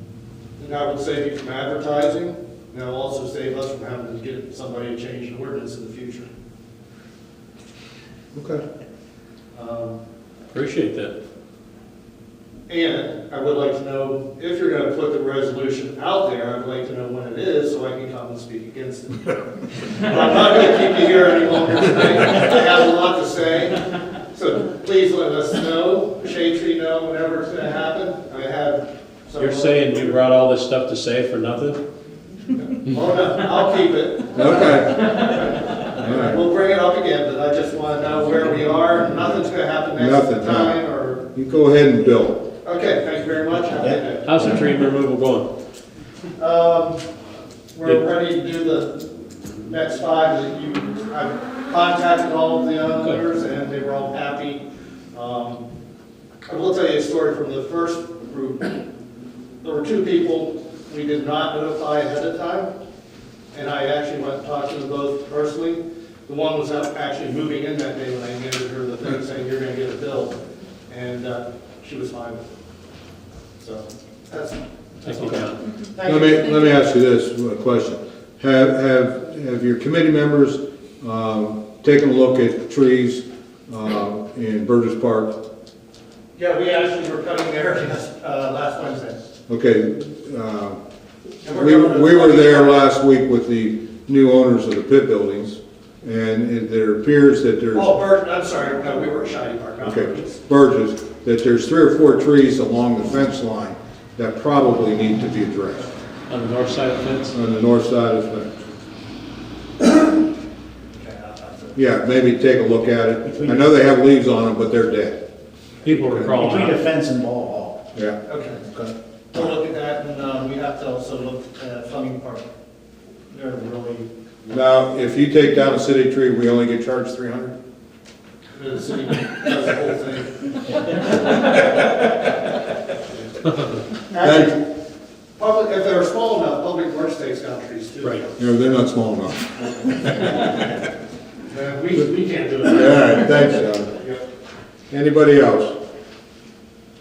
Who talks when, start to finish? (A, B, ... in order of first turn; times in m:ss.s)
0:00.6-0:06.3 A
0:08.3-0:08.6 B
0:09.5-0:10.0 A
0:10.5-0:11.1 C
0:12.7-0:19.4 A
0:20.0-0:23.8 A
0:24.3-0:30.2 A
0:29.4-0:31.8 C
0:32.6-0:41.3 A
0:34.3-0:35.1 B
0:36.0-0:36.4 B
0:40.0-0:40.8 B
0:41.3-0:42.4 B
0:42.6-0:44.3 A
0:43.5-0:44.6 D
0:44.2-0:45.5 C
0:46.4-0:47.0 A
0:47.7-0:49.1 A
0:49.7-0:55.7 A
0:56.4-0:58.8 A
0:59.6-1:02.7 A
1:03.5-1:12.4 A
1:13.6-1:16.3 A
1:15.0-1:15.6 C
1:16.0-1:25.4 B
1:26.3-1:29.2 A
1:29.5-1:30.8 B
1:31.4-1:32.8 A
1:31.6-1:37.9 B
1:37.7-1:40.4 A
1:39.8-1:45.9 B
1:46.3-1:47.3 C
1:47.3-1:48.5 B
1:50.9-1:52.6 A
1:51.8-1:55.2 B
1:53.2-1:53.7 D
1:55.8-1:56.8 C
1:56.0-1:56.4 B
1:56.3-1:57.8 D
1:57.9-1:59.5 B
1:58.2-1:58.6 A
1:59.3-2:02.5 A
2:03.3-2:04.5 A
2:04.5-2:07.6 B
2:08.5-2:10.3 A
2:14.1-2:14.6 A
2:14.2-2:14.5 B
2:15.4-2:18.5 A
2:18.4-2:20.4 B
2:21.5-2:23.4 A
2:22.7-2:23.9 B
2:24.0-2:24.2 A
2:24.9-2:25.7 B